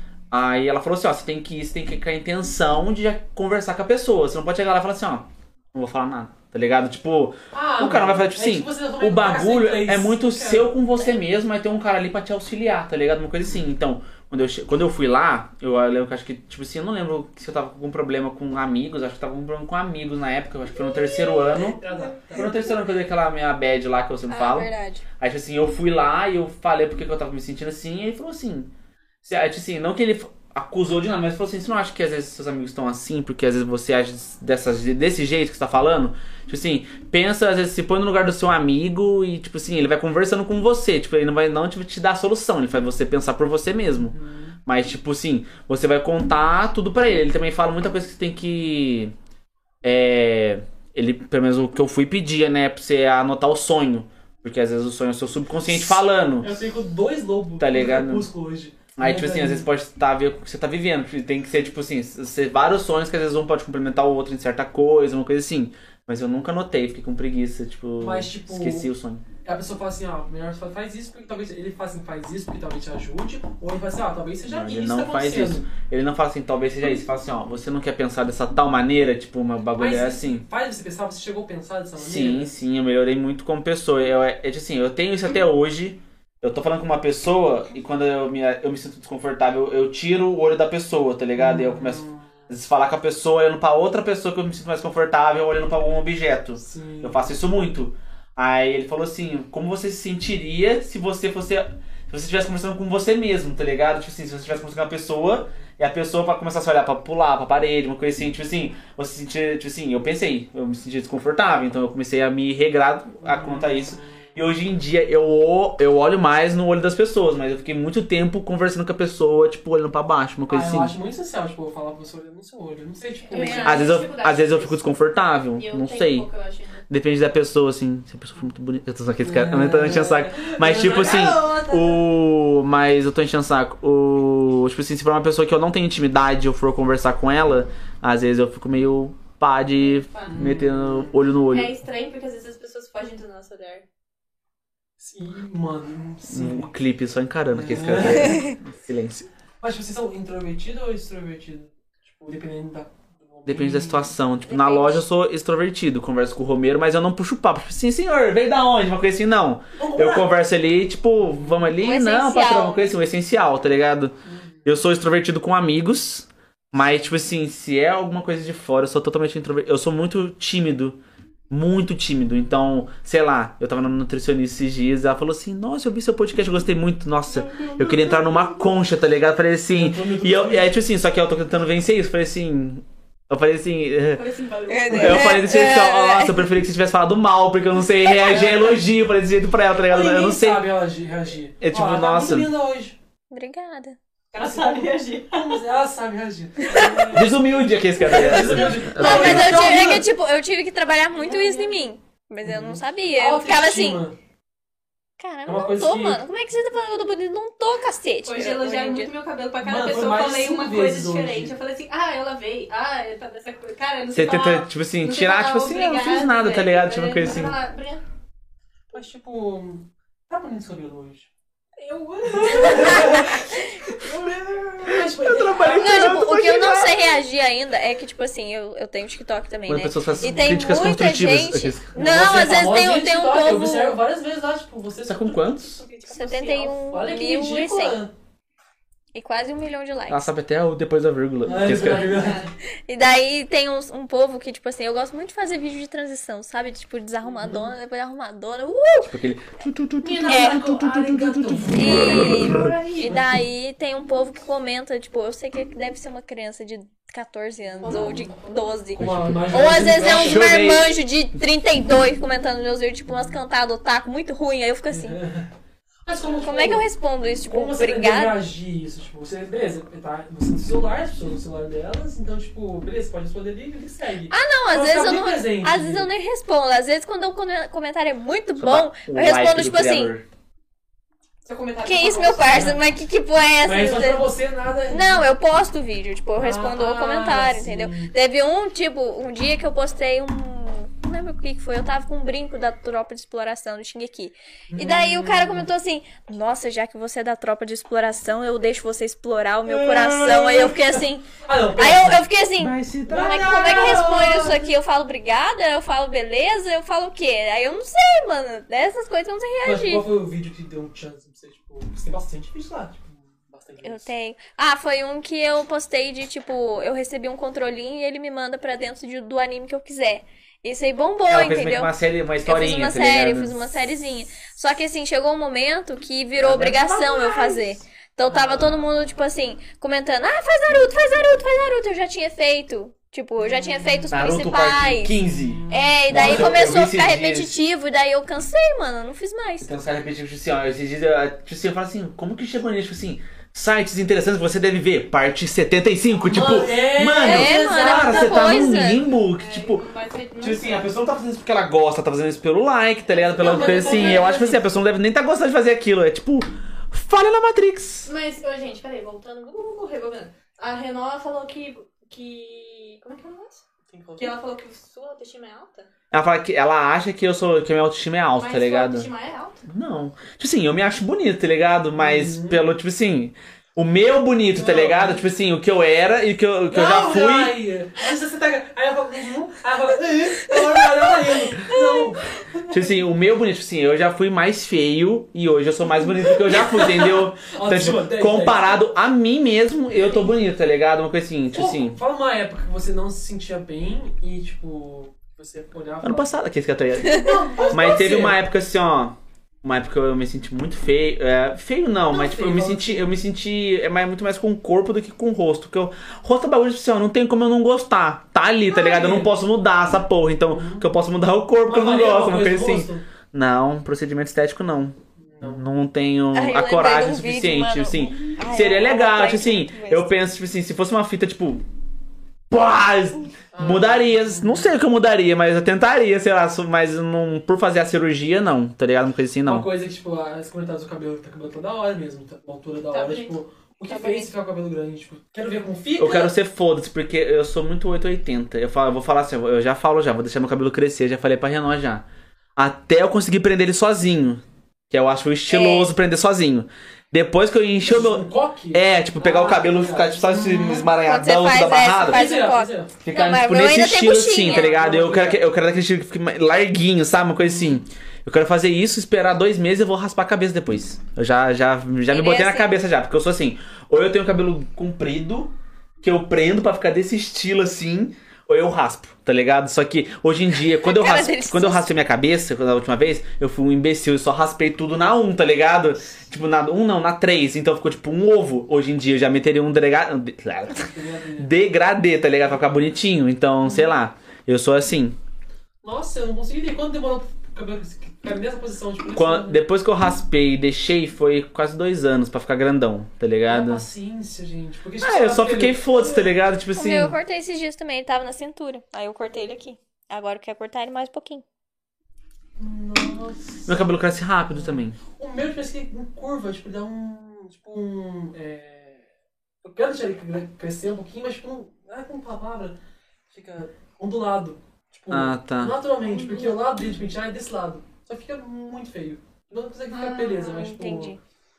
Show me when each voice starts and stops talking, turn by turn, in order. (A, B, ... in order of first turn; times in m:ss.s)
0:00.3-0:28.7 A
0:07.5-0:10.7 B
0:21.5-0:22.7 B
0:24.3-0:25.0 C
0:29.2-0:49.1 A
0:44.1-0:44.6 B
0:49.8-0:56.5 A
0:56.4-0:59.7 B
0:57.6-0:58.3 A
0:59.0-1:09.2 A
1:08.0-1:08.9 B
1:09.4-1:15.7 B
1:14.4-1:20.4 A
1:19.8-1:22.5 B
1:22.0-2:00.9 A
1:31.4-1:32.5 B
1:36.6-1:37.3 B
1:53.2-1:54.3 B
2:00.5-2:03.8 B
2:03.3-2:04.8 D
2:03.3-2:03.9 C
2:03.6-2:06.3 A
2:05.6-2:06.8 D
2:06.9-2:21.7 A
2:09.2-2:11.4 B
2:10.8-2:12.0 D
2:19.8-2:20.5 D
2:20.3-2:21.2 B
2:21.5-2:23.8 D
2:25.0-2:26.7 B
2:26.3-2:29.3 A
2:27.5-2:28.5 B
2:29.6-2:34.2 B
2:33.5-2:51.0 A
2:34.5-2:35.0 C
2:39.8-2:40.3 B
2:41.2-2:41.7 B
2:41.8-2:43.0 C
2:44.2-2:44.8 B
2:51.5-3:04.2 A
2:57.4-2:58.4 D
2:59.7-3:00.7 B
3:04.1-3:05.4 D
3:04.7-3:06.4 C
3:04.9-3:10.7 A
3:08.1-3:08.8 B
3:09.9-3:13.0 B
3:11.6-3:12.5 A
3:13.3-3:14.0 C
3:14.3-3:15.6 D
3:14.4-3:17.5 B
3:16.7-3:17.1 C
3:17.1-3:19.8 A
3:18.0-3:20.1 B
3:18.2-3:24.0 C
3:18.2-3:18.5 D
3:19.0-3:19.5 D
3:21.1-3:21.9 D
3:22.4-3:24.2 B
3:25.2-3:29.1 C
3:25.4-3:26.2 B
3:28.2-3:38.0 D
3:29.6-3:31.6 B
3:34.1-3:37.6 A
3:38.9-3:41.3 B
3:41.8-3:43.4 D
3:42.3-3:46.2 B
3:42.6-3:43.6 C
3:44.8-3:47.2 A
3:45.8-3:54.0 C
3:49.7-3:52.3 A
3:51.9-3:55.6 B
3:55.1-3:55.8 A
3:55.8-3:56.8 D
3:56.1-3:58.0 C
3:56.5-3:58.1 B
3:59.2-4:00.3 C
4:00.1-4:02.3 A
4:01.4-4:02.5 B
4:01.7-4:02.5 D
4:02.9-4:09.1 C
4:07.2-4:07.7 B
4:09.1-4:12.7 A
4:10.0-4:13.4 B
4:10.3-4:10.6 C
4:11.7-4:25.2 C
4:12.0-4:13.3 D
4:17.8-4:18.3 B
4:17.8-4:18.6 D
4:19.0-4:20.5 B
4:19.0-4:21.0 A
4:23.1-4:23.4 B
4:24.9-4:25.5 B
4:26.1-4:26.9 B
4:26.4-4:28.4 C
4:27.5-4:36.1 B
4:34.3-4:40.1 C
4:38.6-4:40.2 A
4:41.4-4:42.8 D
4:41.8-4:44.2 C
4:42.5-4:42.8 B
4:43.6-4:45.3 B
4:44.9-5:10.1 C
4:46.4-4:48.1 B
4:54.7-4:55.7 B
4:59.7-5:02.2 B
5:02.6-5:03.6 A
5:03.1-5:04.7 B
5:09.6-5:14.1 B
5:13.8-5:21.9 C
5:21.3-5:23.6 A
5:22.4-5:35.2 C
5:26.4-5:27.6 A
5:28.3-5:29.1 B
5:33.4-5:34.1 B
5:34.1-5:37.6 A
5:35.2-5:36.7 B
5:35.7-5:39.7 C
5:39.6-5:49.8 A
5:46.3-5:48.6 B
5:47.2-5:49.0 C
5:48.0-5:50.9 D
5:50.4-5:58.1 A
5:53.2-5:54.5 D
5:53.4-5:54.6 B
5:58.1-6:03.6 D
6:03.9-6:04.3 B
6:04.2-6:05.9 D
6:06.1-6:09.1 A
6:08.4-6:09.6 D
6:09.7-6:17.6 A
6:12.0-6:12.6 B
6:14.5-6:15.3 B
6:16.7-6:22.7 B
6:22.7-6:32.0 A
6:26.1-6:28.8 B
6:31.5-6:36.4 B
6:36.0-7:01.6 A
6:37.0-6:38.4 B
6:42.1-6:43.2 B
6:48.7-6:49.3 B
6:50.5-6:50.9 B
6:51.6-6:53.1 B
6:55.2-6:55.6 B
6:56.3-7:00.1 C
7:02.5-7:09.7 A
7:03.5-7:04.7 B
7:09.5-7:16.3 B
7:12.9-7:13.4 D
7:13.9-7:14.3 C
7:16.0-7:22.1 A
7:22.6-7:32.2 A
7:25.5-7:25.9 C
7:27.8-7:30.9 B
7:30.9-7:34.8 C
7:32.1-7:32.9 B
7:33.0-8:05.2 A
7:34.4-7:35.5 B
7:42.1-7:42.7 C
7:50.8-7:51.9 C
8:00.8-8:01.5 B
8:03.6-8:03.9 B
8:05.8-8:09.6 B
8:09.2-8:13.8 A
8:13.5-8:16.3 B
8:15.0-8:17.2 A
8:16.7-8:21.4 C
8:22.6-8:23.9 B
8:23.7-8:25.0 A
8:24.5-8:29.1 B
8:29.6-8:32.8 B
8:33.3-8:41.2 B
8:35.1-8:35.8 A
8:36.0-8:36.7 D
8:39.9-8:41.2 C